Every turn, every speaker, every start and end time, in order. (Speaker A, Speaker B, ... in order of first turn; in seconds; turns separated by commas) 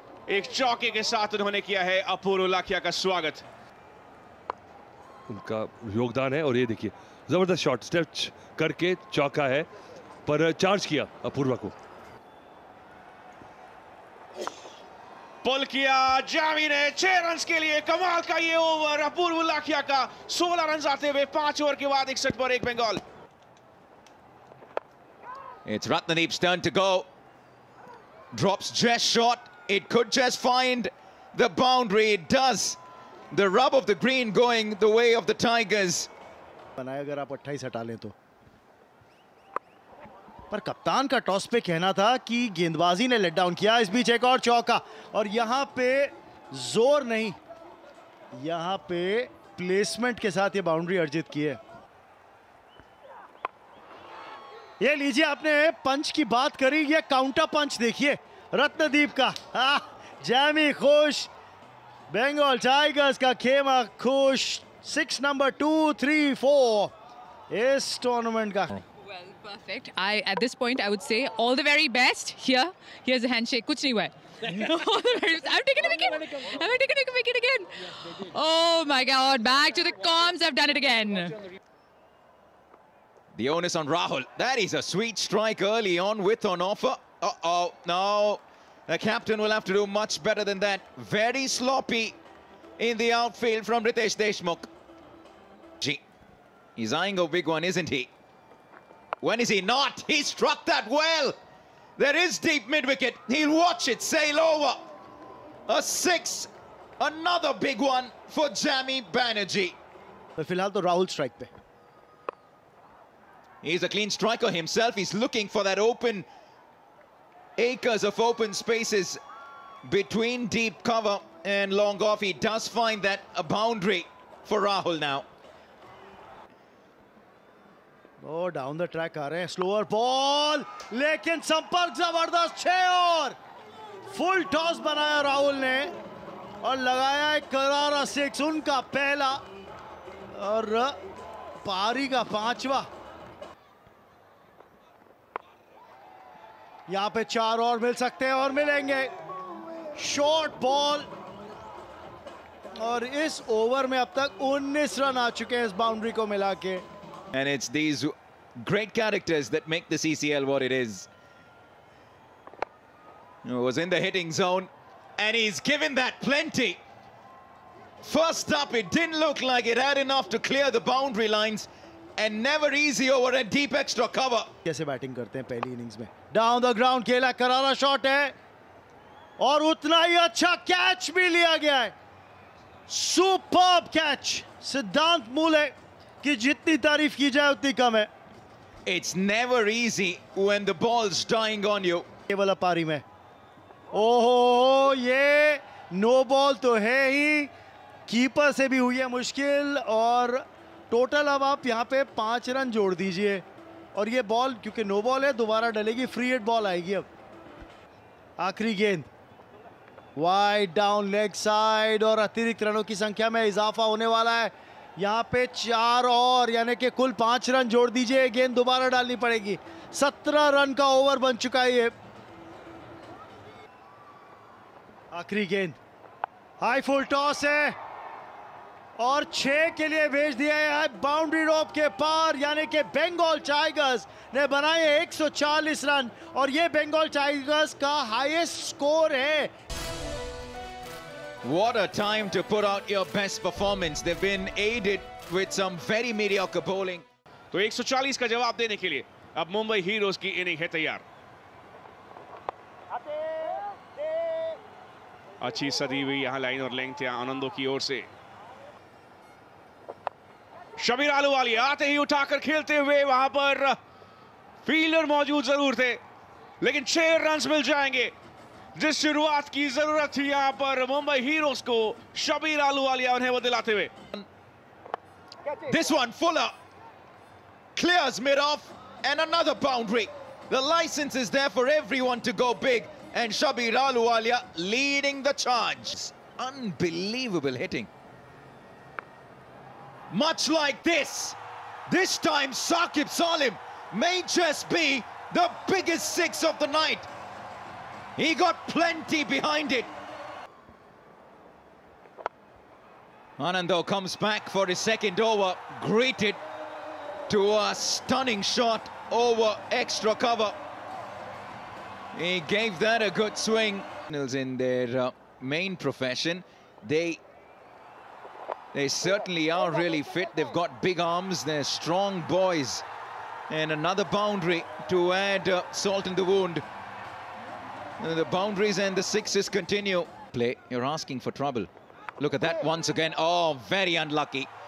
Speaker A: 0.3-3.4, Speaker B: 5.3-9.7, Speaker B: 10.2-11.7, Speaker A: 15.4-23.0, Speaker C: 25.6-27.1, Speaker C: 28.3-32.8, Speaker C: 33.3-36.1, Speaker D: 36.8-38.1, Speaker D: 40.5-47.4, Speaker D: 48.3-51.6, Speaker D: 54.8-61.3, Speaker D: 62.1-66.9, Speaker D: 67.5-68.8, Speaker E: 69.0-81.4, Speaker C: 83.3-92.2, Speaker C: 92.8-94.7, Speaker C: 96.8-98.1, Speaker C: 99.2-101.4, Speaker C: 102.0-104.9, Speaker C: 105.7-109.8, Speaker D: 110.4-111.5, Speaker C: 113.6-116.3, Speaker C: 117.6-119.2, Speaker C: 119.8-125.3, Speaker D: 128.2-133.3, Speaker D: 134.1-135.9, Speaker D: 136.6-139.4, Speaker D: 140.3-141.0, Speaker D: 141.6-142.8, Speaker D: 146.9-149.1, Speaker D: 149.9-151.1, Speaker D: 152.8-156.8, Speaker C: 157.3-161.1, Speaker C: 163.4-166.8, Speaker C: 168.0-174.5, Speaker D: 174.6-178.3, Speaker D: 179.4-181.9, Speaker D: 182.9-188.1, Speaker C: 188.8-192.1, Speaker D: 192.3-193.0, Speaker D: 193.9-197.5, Speaker D: 198.1-207.1, Speaker D: 208.4-209.1, Speaker D: 210.2-221.9, Speaker D: 225.1-225.8, Speaker D: 226.6-227.8, Speaker D: 229.0-239.5, Speaker C: 241.4-247.0, Speaker A: 247.5-251.0, Speaker A: 255.4-258.1, Speaker A: 260.8-263.8, Speaker A: 264.6-266.0, Speaker A: 266.6-268.1, Speaker A: 268.8-273.9, Speaker C: 275.6-276.5, Speaker C: 277.7-287.9, Speaker C: 290.1-291.4, Speaker C: 291.9-297.1, Speaker C: 298.1-299.9, Speaker C: 303.4-306.4, Speaker C: 307.3-310.6, Speaker C: 312.1-317.2, Speaker C: 318.7-322.8, Speaker C: 323.5-326.6, Speaker C: 328.0-334.5